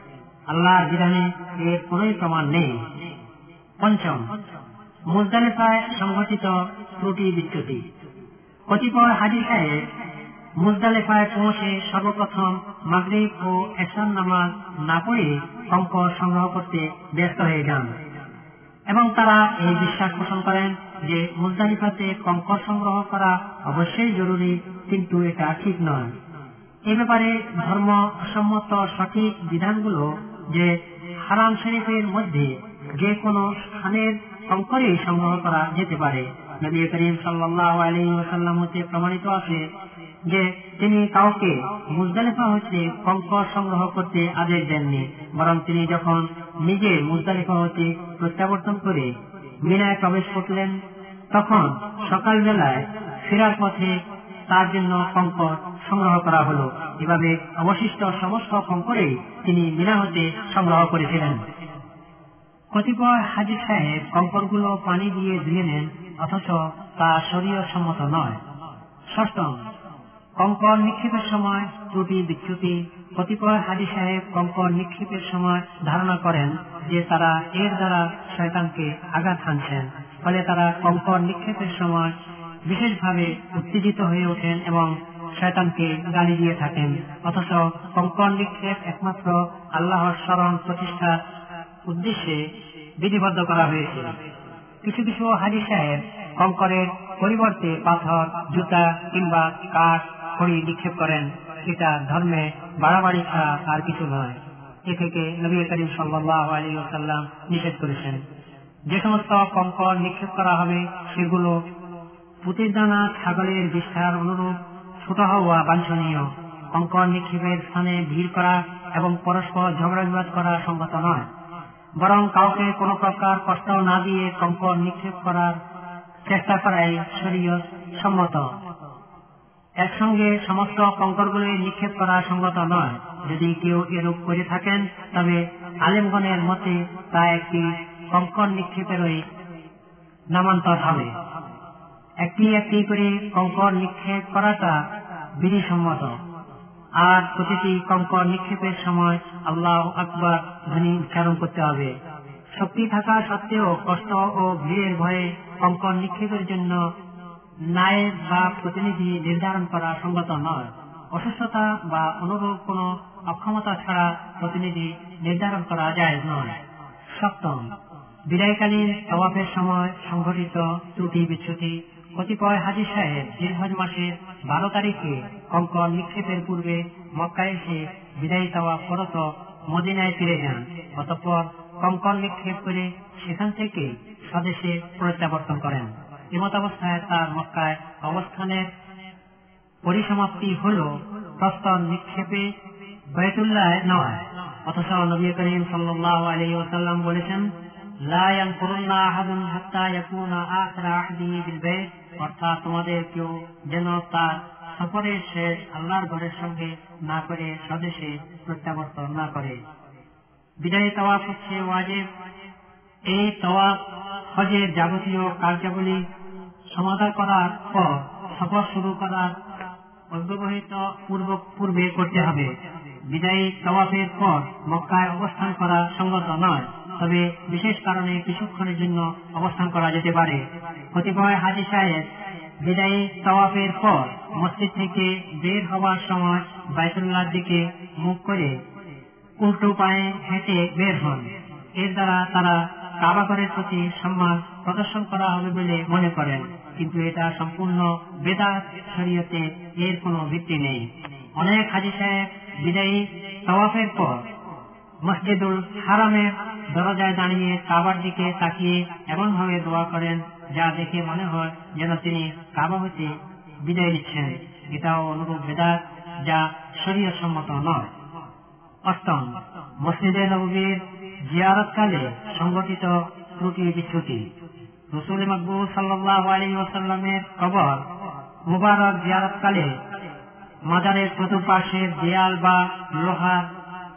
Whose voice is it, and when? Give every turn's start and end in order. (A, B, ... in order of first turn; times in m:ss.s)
0:00.5-0:02.8 A
0:03.8-0:04.2 A
0:05.1-0:07.8 A
0:08.7-0:09.8 A
0:10.6-0:17.9 A
0:18.9-0:26.1 A
0:26.9-0:39.6 A
0:40.3-0:50.8 A
0:51.3-1:01.4 A
1:02.7-1:08.4 A
1:09.1-1:09.6 A
1:10.4-1:22.1 A
1:22.7-1:31.2 A
1:31.9-1:34.2 A
1:34.8-1:48.2 A
1:48.9-1:51.6 A
1:52.4-2:01.3 A
2:02.0-2:05.6 A
2:06.2-2:08.5 A
2:09.8-2:19.2 A
2:20.3-2:21.1 A
2:22.2-2:24.8 A
2:25.4-2:26.2 A
2:27.0-2:31.9 A
2:32.6-2:36.9 A
2:37.6-2:46.6 A
2:47.1-2:47.7 A
2:48.3-3:08.7 A
3:09.8-3:12.5 A
3:13.1-3:17.5 A
3:18.0-3:29.6 A
3:30.6-3:32.0 A
3:33.1-3:36.0 A
3:36.7-3:39.3 A
3:40.1-3:42.5 A
3:43.1-3:52.1 A
3:52.6-3:58.6 A
3:59.4-4:10.8 A
4:11.4-4:14.3 A
4:15.0-4:27.9 A
4:28.8-4:34.3 A
4:34.9-4:37.8 A
4:38.5-4:39.7 A
4:40.7-4:43.5 A